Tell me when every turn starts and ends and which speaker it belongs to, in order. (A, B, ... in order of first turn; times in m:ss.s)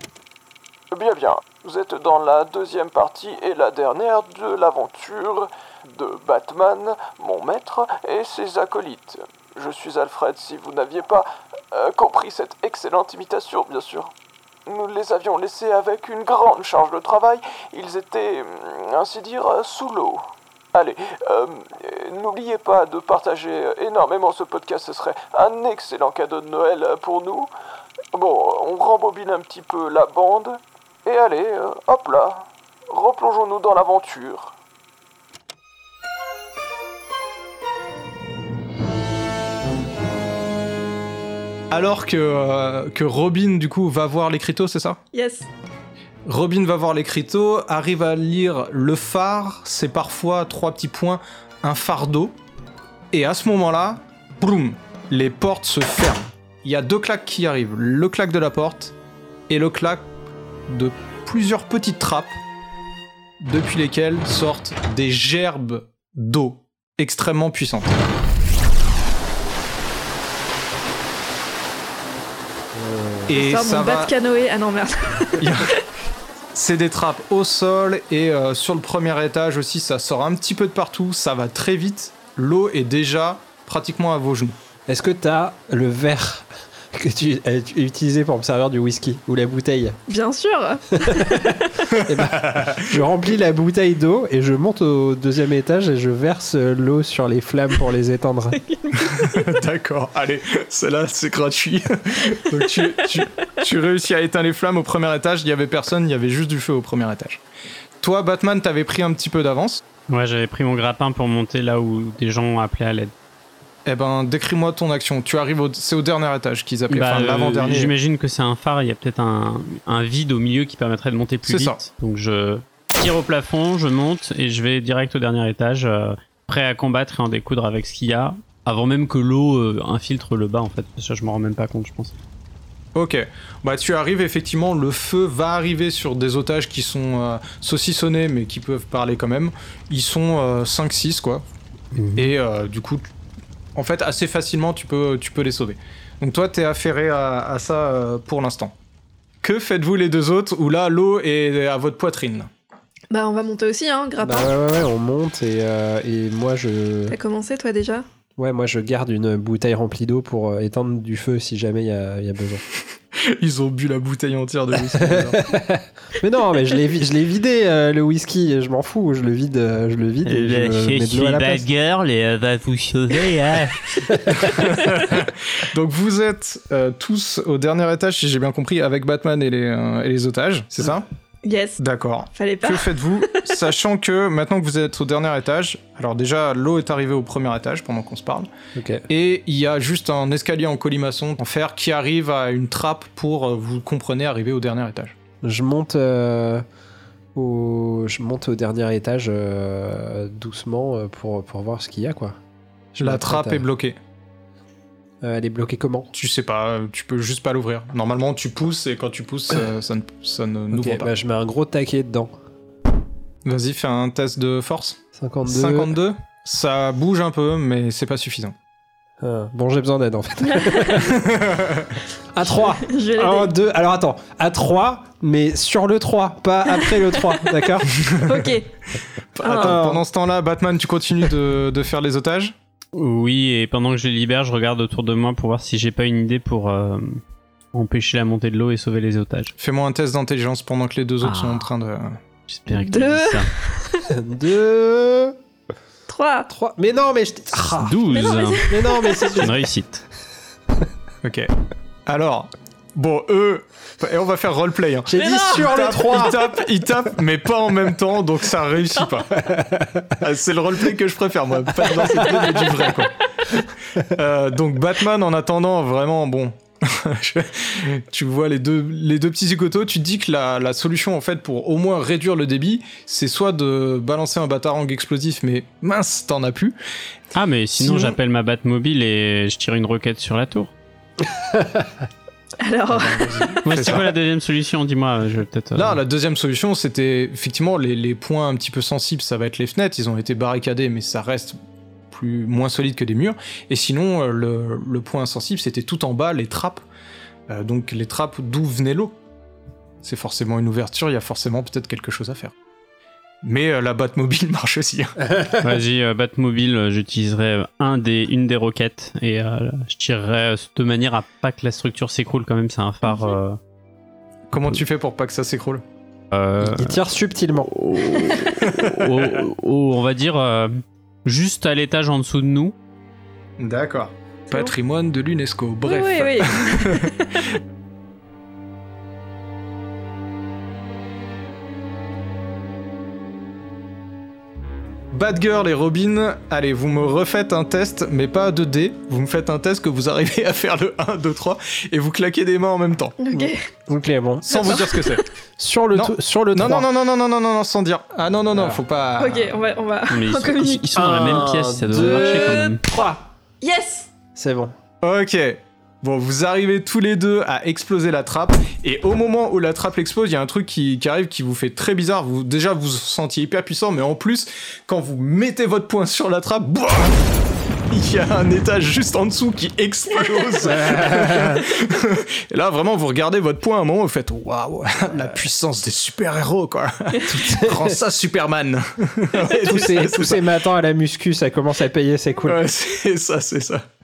0:00.9-0:14.1 A
0:14.6-0:27.5 A
0:28.1-0:34.6 A
0:41.7-0:45.0 B
0:45.1-0:45.5 C
0:46.2-0:52.3 B
0:53.1-0:58.9 B
0:59.5-1:00.1 B
1:00.7-1:02.4 B
1:03.4-1:08.0 B
1:12.7-1:13.3 D
1:13.3-1:14.1 B
1:13.3-1:15.8 C
1:15.4-1:15.8 B
1:16.5-1:24.6 B
1:24.9-1:30.0 D
1:30.1-1:32.0 C
1:30.9-1:38.6 D
1:31.9-1:33.0 B
1:38.5-1:39.5 C
1:39.2-1:47.4 B
1:48.0-1:49.8 B
1:50.1-1:53.1 E
1:53.8-1:57.9 B
1:56.9-2:12.1 E
2:01.4-2:01.8 B
2:12.9-2:21.4 B
2:21.9-2:22.3 E
2:22.2-2:23.1 B
2:23.7-2:28.7 B
2:29.4-2:32.5 B
2:33.1-2:34.5 C
2:34.2-2:37.2 D
2:37.1-2:38.0 C
2:38.4-2:42.6 D
2:43.2-2:45.5 B
2:44.9-2:51.7 D
2:50.2-2:53.9 E
2:54.1-2:54.4 D
2:54.3-3:01.0 B
3:01.4-3:01.8 C
3:01.8-3:08.5 B
3:02.3-3:03.6 C
3:08.8-3:09.0 D
3:09.1-3:15.1 B
3:15.4-3:16.6 D
3:17.3-3:22.4 D
3:22.9-3:23.7 D
3:23.0-3:24.0 B
3:25.2-3:26.1 D
3:26.1-3:31.1 B
3:30.7-3:32.3 D
3:33.4-3:38.5 B
3:35.1-3:36.0 D
3:39.2-3:41.3 D
3:40.4-3:41.2 C
3:41.0-3:41.9 B
3:42.3-3:47.9 D
3:42.4-3:43.5 C
3:46.7-3:47.6 C
3:48.0-3:48.4 B
3:48.1-3:48.7 C
3:49.3-3:52.5 B
3:49.4-3:49.8 C
3:49.4-3:50.0 D
3:52.9-3:57.2 E
3:57.7-3:59.5 E
3:59.6-4:02.2 B
4:01.2-4:01.7 E
4:02.5-4:03.5 E
4:02.7-4:04.1 C
4:04.1-4:05.4 D
4:06.1-4:06.5 C
4:06.5-4:09.6 D
4:07.8-4:10.0 E
4:08.1-4:09.5 C
4:11.2-4:11.5 B
4:12.0-4:19.4 B
4:15.1-4:16.4 D
4:15.2-4:16.3 C
4:18.9-4:19.2 C
4:19.3-4:20.2 D
4:20.2-4:36.8 B
4:37.3-4:40.7 E
4:37.8-4:38.2 B
4:41.3-4:41.9 D
4:42.6-4:43.6 C
4:42.9-4:44.1 B
4:43.6-4:46.0 E
4:45.8-4:51.6 B
4:52.1-4:56.8 B
4:57.5-4:59.2 B
5:00.0-5:02.5 B
5:03.4-5:05.3 B
5:05.6-5:13.6 E
5:13.1-5:13.3 C
5:14.5-5:15.8 B
5:16.3-5:17.0 E
5:16.6-5:17.8 D
5:17.7-5:22.7 E
5:18.6-5:19.4 B
5:23.6-5:27.1 B
5:25.8-5:27.5 C
5:35.1-5:43.2 B
5:43.2-5:43.7 C
5:43.3-5:44.8 D
5:44.4-5:45.2 B
5:44.5-5:45.2 C
5:45.6-5:46.9 D
5:45.9-5:49.5 B
5:48.5-5:48.8 D
5:49.2-5:51.3 C
5:50.1-5:52.8 E
5:50.9-5:53.2 D
5:51.9-5:54.1 C
5:54.3-5:54.7 D
5:55.0-6:07.2 B
6:07.9-6:20.4 B
6:10.6-6:11.6 D
6:17.3-6:18.0 D
6:19.4-6:22.6 D
6:22.4-6:23.8 B